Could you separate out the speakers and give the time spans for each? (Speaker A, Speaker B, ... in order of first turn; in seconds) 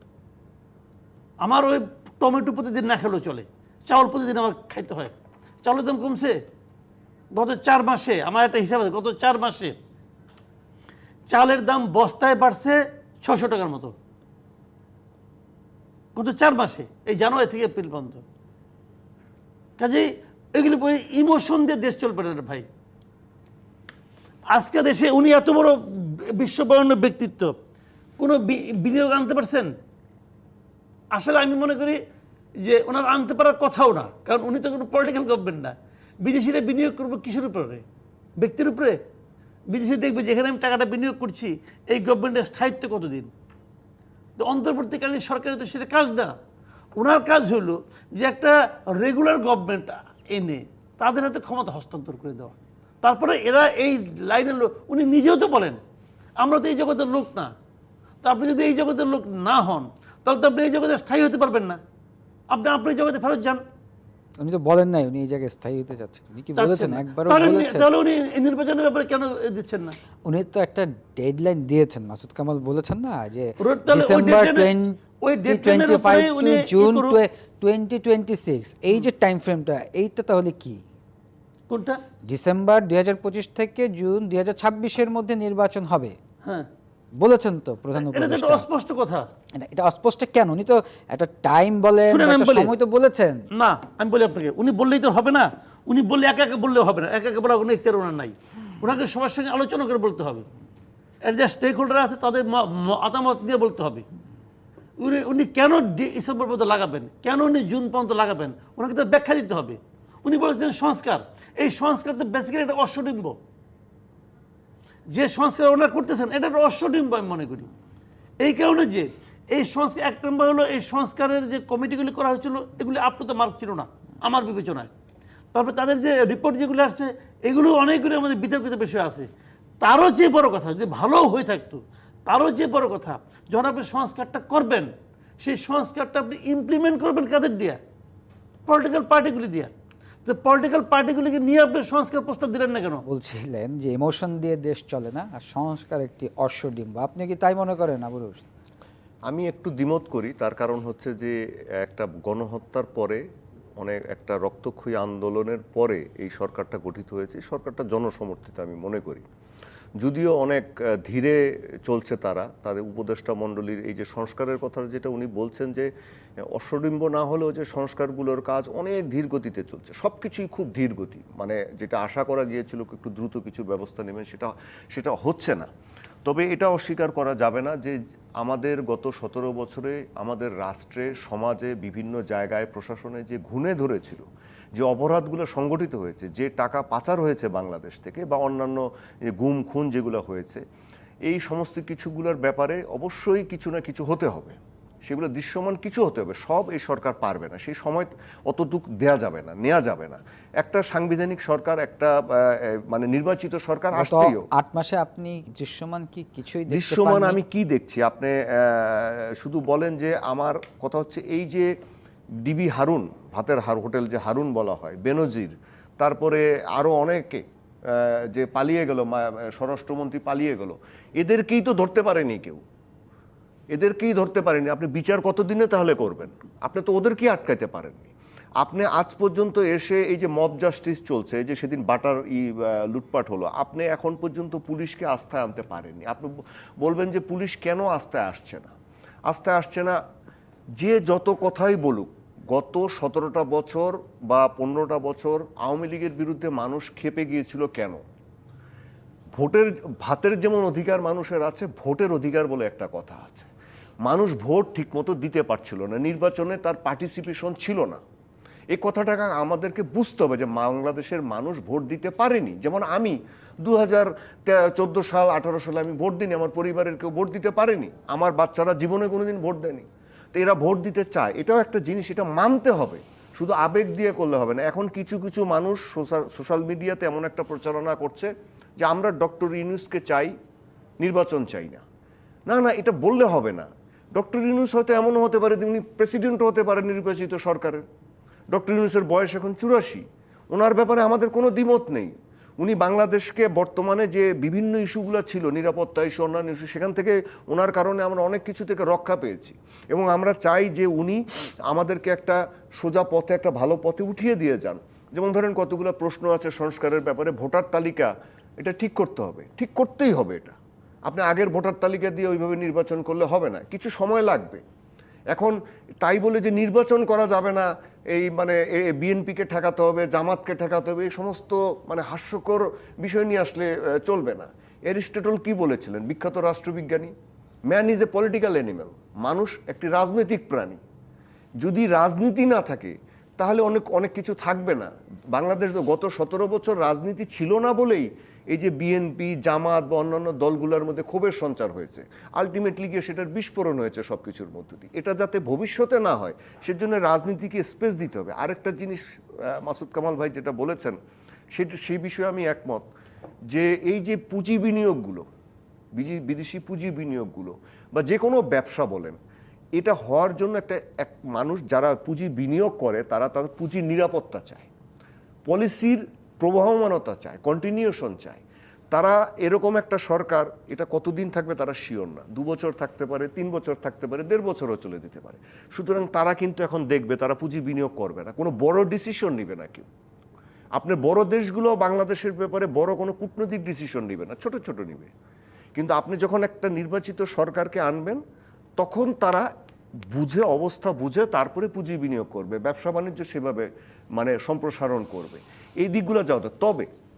Speaker A: 1.4-5.1, 5.6-6.4, 7.3-9.8, 11.3-14.0, 16.1-18.2, 19.8-22.7, 24.5-27.6, 28.2-29.7, 31.1-32.0, 32.6-37.8, 38.4-39.0, 39.7-43.3, 44.4-46.4, 47.0-55.8, 56.4-57.5, 58.2-61.8, 62.5-63.6, 66.5-70.0, 73.6-77.2, 81.7-82.0, 86.4-86.7, 88.0-89.2, 92.1-92.7, 93.5-100.5, 101.2-104.1, 105.0-113.4, 115.1-117.7, 118.4-124.9, 125.5-129.3, 129.8-137.8, 138.7-139.7, 140.2-143.0
Speaker B: 64.4-67.9, 70.2-80.8, 82.3-86.2, 87.2-88.7, 89.6-93.4, 143.1-148.5, 203.9-207.4
Speaker C: 149.3-153.2, 153.8-159.3, 160.0-165.9, 166.4-175.7, 176.2-184.2, 184.8-190.6, 191.2-204.5, 206.7-211.7, 212.4-222.6, 223.7-238.7, 239.3-240.0, 240.8-248.0, 249.4-253.5, 254.0-258.0, 258.7-280.3, 281.0-281.8, 282.5-287.9, 288.5-314.6, 315.3-327.1, 327.7-330.8, 331.6-351.0, 351.5-352.9, 353.5-355.3, 355.9-359.2, 359.8-364.7, 365.5-379.9, 380.8-385.1, 385.8-388.2, 388.8-389.5, 390.1-396.9